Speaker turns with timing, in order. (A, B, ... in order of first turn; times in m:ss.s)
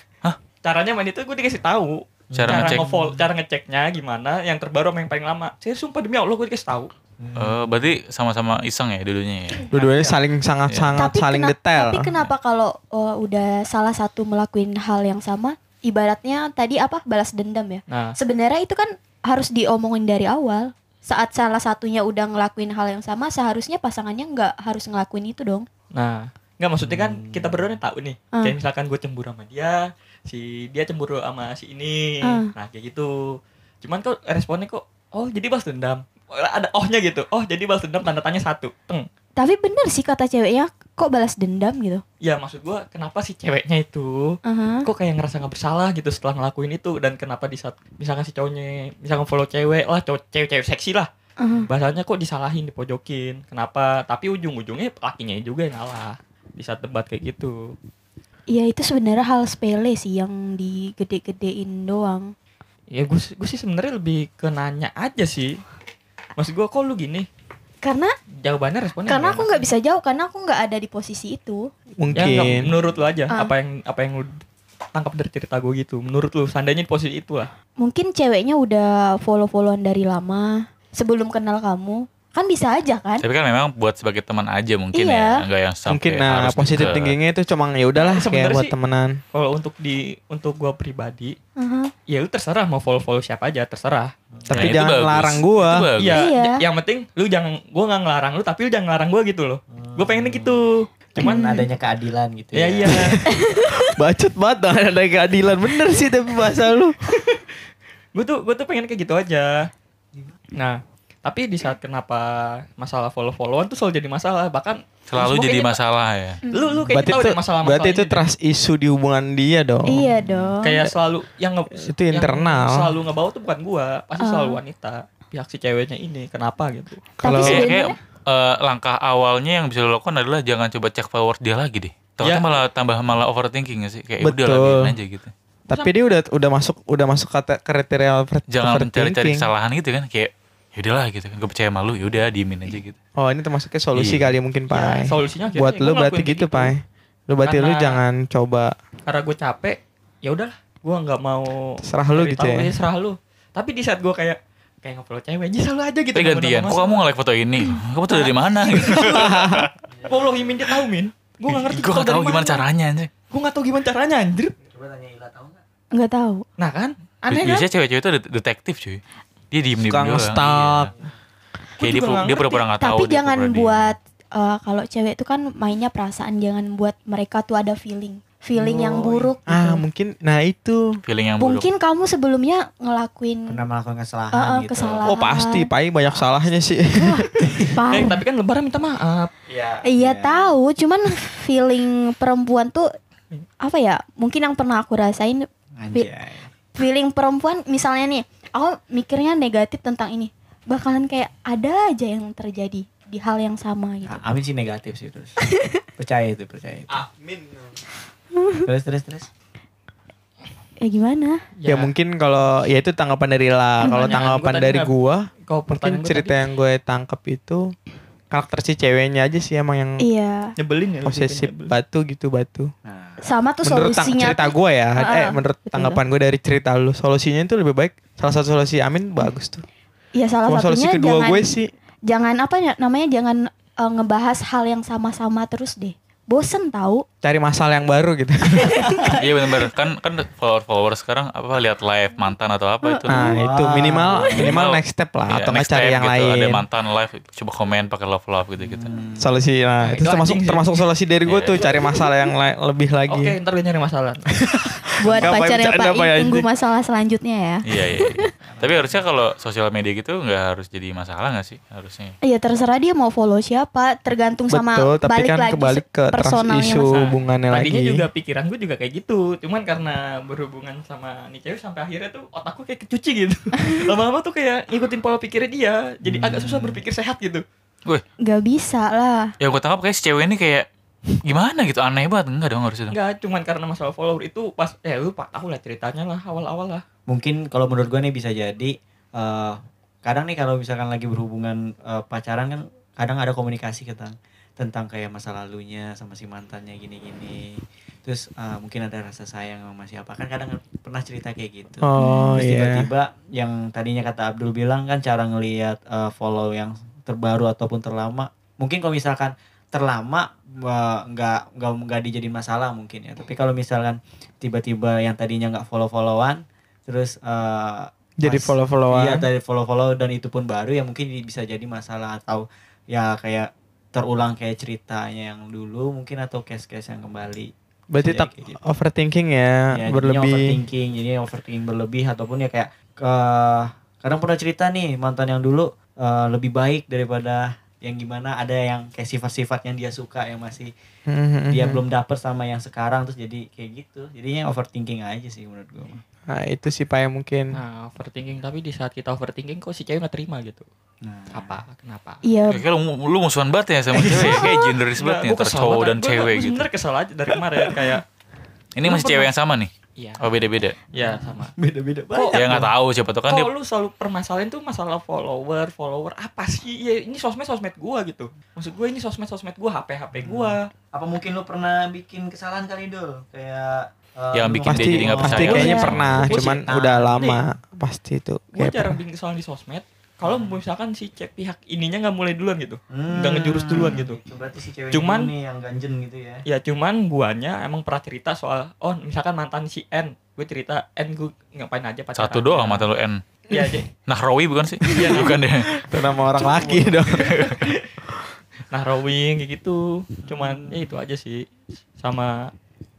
0:00.6-0:06.9 A
0:02.3-0:03.3 B
0:02.4-0:02.8 C
0:07.2-0:07.9 B
0:07.4-0:09.7 C
0:09.7-0:10.2 A
0:09.7-0:12.1 D
0:10.7-0:10.9 C
0:11.0-0:25.7 E
0:17.9-0:18.2 A
0:25.9-0:39.1 A
0:26.8-0:27.8 B
0:32.2-0:32.5 E
0:39.4-0:42.0 E
0:42.2-0:51.1 A
0:44.4-0:44.9 E
0:51.4-0:51.7 E
0:51.7-0:57.7 A
0:58.5-1:02.3 E
1:02.9-1:05.5 A
1:06.4-1:07.3 A
1:07.8-1:08.1 E
1:08.4-1:09.7 A
1:09.1-1:11.7 E
1:12.0-1:12.7 D
1:12.1-1:14.3 A
1:12.2-1:13.0 B
1:14.9-1:17.5 A
1:17.8-1:23.2 E
1:23.2-1:27.2 C
1:24.9-1:25.4 E
1:25.9-1:29.2 D
1:28.0-1:28.7 A
1:29.3-1:31.4 A
1:31.6-1:31.9 E
1:32.1-1:34.1 A
1:34.3-1:34.8 B
1:34.5-1:35.9 D
1:34.5-1:36.3 C
1:36.0-1:41.5 A
1:36.1-1:36.6 E
1:39.7-1:40.6 B
1:41.2-1:43.2 B
1:41.2-1:41.7 E
1:42.5-1:43.2 A
1:42.9-1:43.2 D
1:43.3-1:43.9 E
1:43.8-1:47.0 D
1:47.1-1:47.4 A
1:48.2-1:49.7 A
1:50.6-1:55.8 A
1:55.1-1:56.4 C
1:56.5-1:56.8 E
1:56.5-1:58.3 A
1:56.9-2:00.0 D
1:59.9-2:00.9 E
2:00.2-2:00.5 B
2:00.6-2:07.1 A
2:01.8-2:03.0 D
2:04.2-2:04.6 E
2:07.2-2:08.0 E
2:07.2-2:07.8 D
2:07.4-2:15.3 C
2:12.2-2:12.6 A
2:14.2-2:14.9 D
2:15.7-2:15.9 A
2:15.7-2:19.5 D
2:18.5-2:23.0 C
2:23.2-2:28.7 D
2:23.9-2:24.3 C
2:24.7-2:26.8 A
2:27.4-2:28.0 A
2:29.1-2:37.0 A
2:31.8-2:32.8 D
2:36.2-2:39.7 C
2:38.1-2:42.6 A
2:39.0-2:39.7 D
2:39.9-2:40.8 B
2:41.5-2:43.1 C
2:43.3-2:44.6 A
2:44.6-2:45.6 B
2:45.9-2:46.5 E
2:46.6-2:47.7 A
2:47.3-2:49.0 C
2:49.5-2:50.9 C
2:49.8-2:50.9 D
2:51.8-2:52.6 A
2:51.8-2:54.0 C
2:52.8-2:59.8 E
2:58.6-2:59.3 A
2:59.5-3:01.0 D
3:01.1-3:01.7 C
3:01.4-3:03.6 E
3:03.5-3:05.1 B
3:04.3-3:05.7 E
3:05.0-3:07.5 D
3:07.0-3:08.2 E
3:07.4-3:07.7 B
3:07.9-3:09.3 A
3:09.5-3:10.5 B
3:09.8-3:12.9 E
3:13.6-3:16.1 E
3:15.8-3:16.5 B
3:16.8-3:24.2 E
3:24.1-3:25.4 B
3:26.0-3:27.0 B
3:26.9-3:27.8 D
3:28.4-3:28.6 E
3:28.6-3:29.3 B
3:30.8-3:31.4 E
3:31.6-3:31.9 A
3:31.7-3:37.7 D
3:33.8-3:34.2 E
3:33.8-3:34.9 A
3:35.5-3:36.4 A
3:38.3-3:40.0 D
3:40.0-3:40.5 E
3:40.6-3:41.8 A
3:41.0-3:42.7 D
3:42.9-3:43.2 B
3:43.2-3:46.0 E
3:43.6-3:49.6 D
3:50.2-3:51.6 E
3:50.5-3:51.7 D
3:52.1-3:57.0 E
3:57.2-3:58.9 D
3:58.6-3:59.2 B
3:58.7-3:59.1 E
3:59.1-4:03.3 C
4:03.1-4:06.6 D
4:03.2-4:04.5 B
4:04.3-4:08.9 C
4:08.6-4:09.4 B
4:09.2-4:13.4 D
4:09.8-4:10.8 A
4:11.3-4:11.6 C
4:13.1-4:14.3 A
4:14.5-4:16.5 D
4:15.0-4:18.3 E
4:17.7-4:22.2 C
4:18.4-4:19.0 B
4:22.2-4:26.9 E
4:24.5-4:28.1 D
4:26.9-4:37.4 A
4:36.0-4:36.8 B
4:38.2-4:39.3 E
4:39.4-4:40.7 C
4:41.2-4:43.0 C
4:42.9-4:46.8 A
4:47.1-5:28.6 B
5:01.8-5:02.9 D
5:02.0-5:02.4 E
5:18.2-5:19.2 D
5:27.9-5:30.6 D
5:29.7-5:40.7 B
5:41.1-5:41.8 D
5:41.5-5:46.0 B
5:46.3-5:47.5 D
5:47.5-5:50.7 A
5:51.0-5:51.6 B
5:51.3-5:52.2 A
5:52.2-5:52.6 E
5:52.5-5:56.7 C
5:53.9-5:58.0 A
5:58.8-6:00.8 C
5:58.8-5:59.3 A
6:00.0-6:00.4 A
6:00.9-6:01.5 A
6:01.0-6:02.7 B
6:02.1-6:02.7 A
6:02.3-6:03.5 C
6:03.3-6:10.7 A
6:10.2-6:17.2 B
6:14.3-6:16.4 C
6:14.7-6:19.0 D
6:15.3-6:17.4 A
6:15.6-6:15.9 E
6:18.5-6:24.2 A
6:20.2-6:20.6 B
6:22.9-6:26.4 B
6:24.9-6:25.3 A
6:26.4-6:32.9 A
6:32.2-6:33.2 C
6:33.5-6:33.9 A
6:34.0-6:35.7 C
6:34.9-6:37.8 A
6:35.8-6:37.5 D
6:36.2-6:36.9 B
6:37.1-6:37.6 C
6:38.7-6:41.5 A
6:40.2-6:40.9 B
6:42.0-6:42.5 A